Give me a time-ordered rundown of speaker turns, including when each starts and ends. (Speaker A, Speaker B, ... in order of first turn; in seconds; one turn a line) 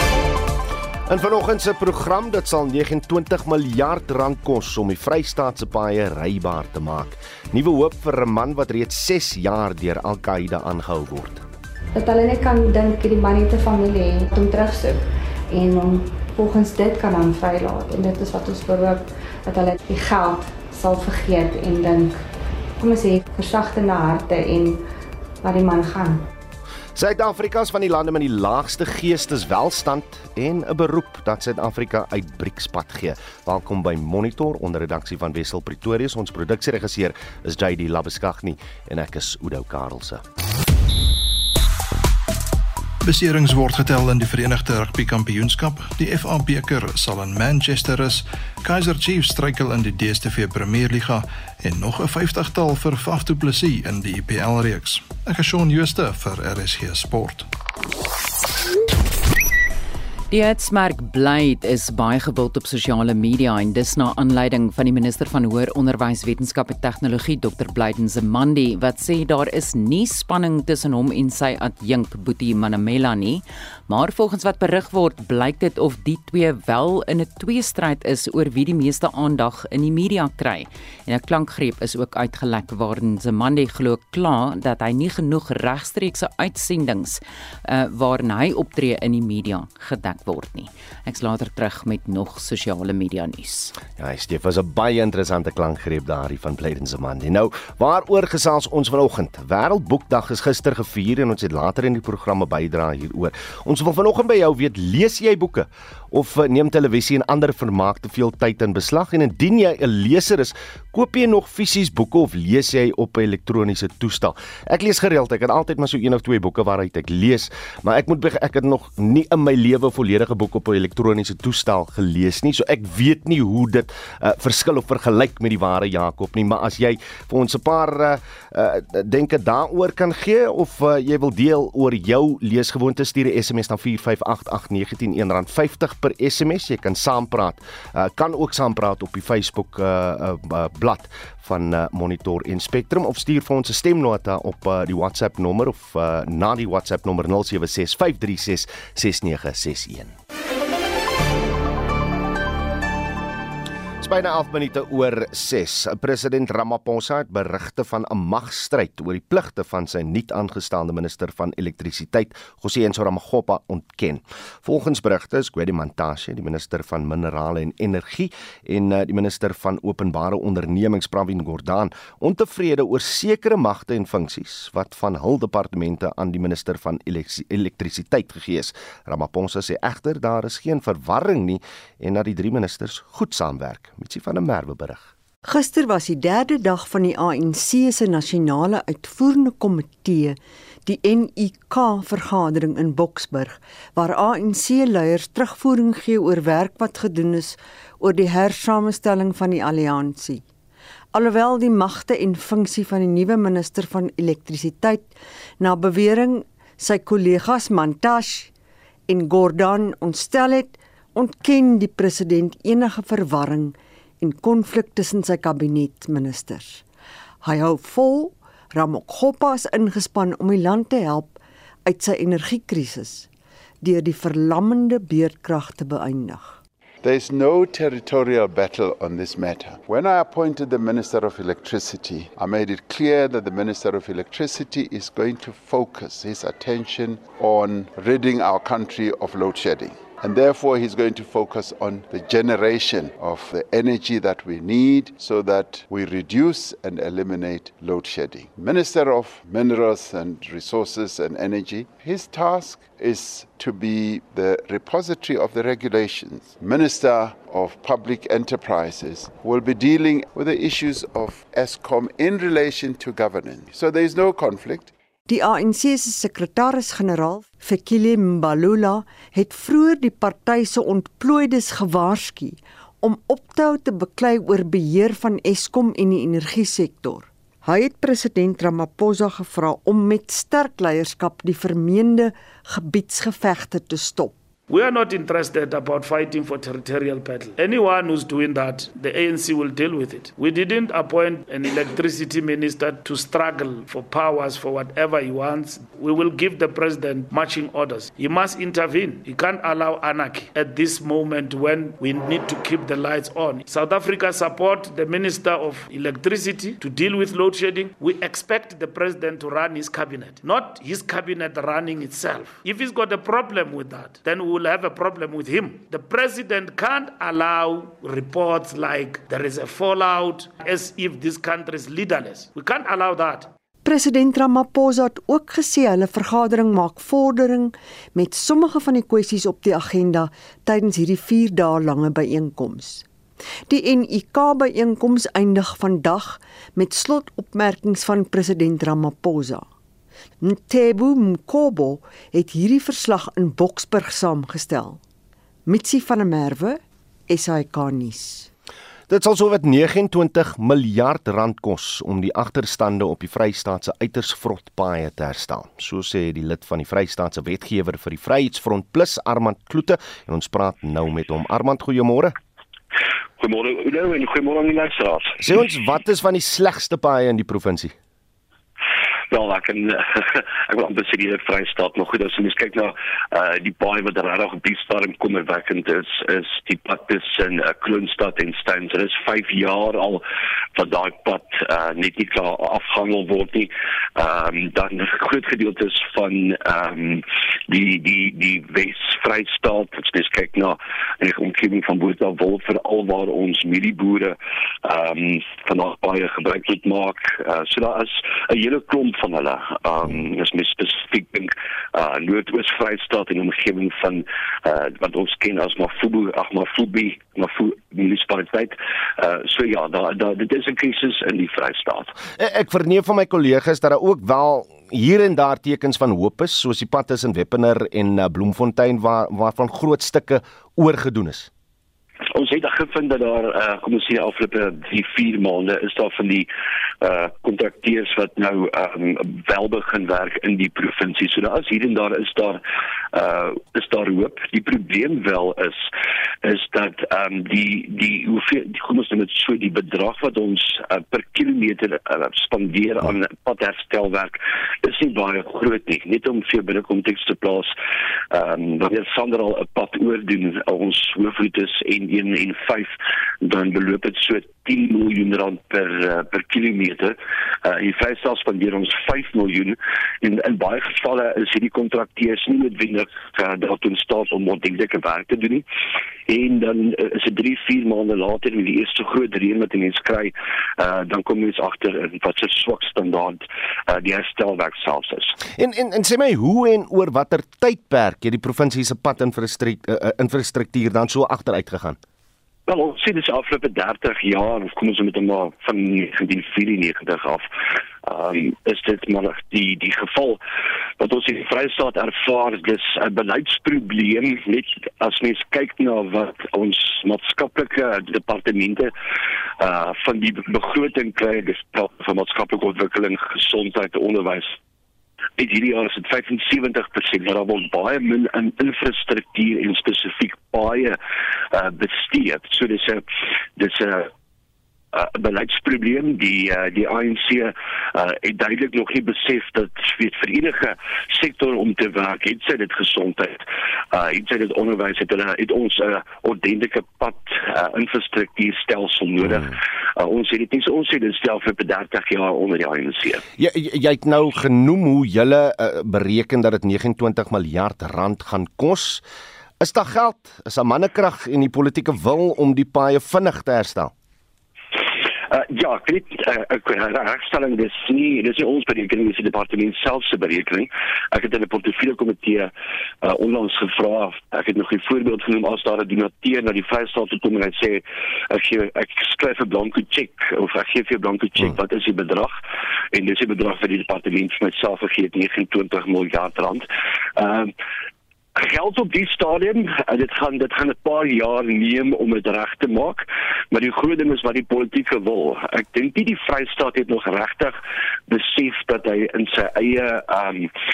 Speaker A: 1.1-11.4
Speaker B: 11.9-22.1
Speaker B: 22.8-24.8
Speaker B: 25.4-26.2
Speaker A: 26.9-40.2
Speaker C: 43.0-57.5
Speaker D: 60.3-93.7
Speaker A: 93.9-150.2
Speaker A: 154.0-185.1
Speaker E: 185.4-200.4
Speaker E: 201.1-208.5
Speaker E: 209.1-216.8
Speaker E: 217.4-223.3
Speaker E: 223.8-226.6
Speaker F: 227.0-264.9
Speaker E: 265.3-284.3
Speaker G: 284.7-323.5
Speaker E: 323.8-333.0
Speaker E: 333.7-339.6
Speaker E: 340.4-345.0
Speaker E: 345.6-348.5
Speaker A: 349.1-362.3
Speaker H: 363.4-365.4
Speaker A: 365.4-367.9
Speaker H: 369.3-380.2
Speaker H: 380.7-412.1
Speaker A: 412.4-421.5
Speaker H: 422.3-426.5
Speaker H: 427.0-432.6
Speaker H: 433.1-435.8
Speaker H: 436.4-447.7
Speaker H: 448.3-465.6
Speaker H: 466.3-475.3
Speaker A: 475.5-482.0
Speaker H: 482.7-487.4
Speaker H: 488.0-490.4
Speaker H: 491.0-498.9
Speaker H: 499.6-504.6
Speaker H: 505.4-511.0
Speaker H: 511.5-513.0
Speaker H: 513.6-514.1
Speaker H: 514.9-533.2
Speaker A: 533.4-539.0
Speaker A: 539.6-543.9
Speaker H: 545.3-552.5
Speaker H: 553.0-562.4
Speaker H: 562.9-567.5
Speaker H: 568.4-577.6
Speaker H: 578.1-580.5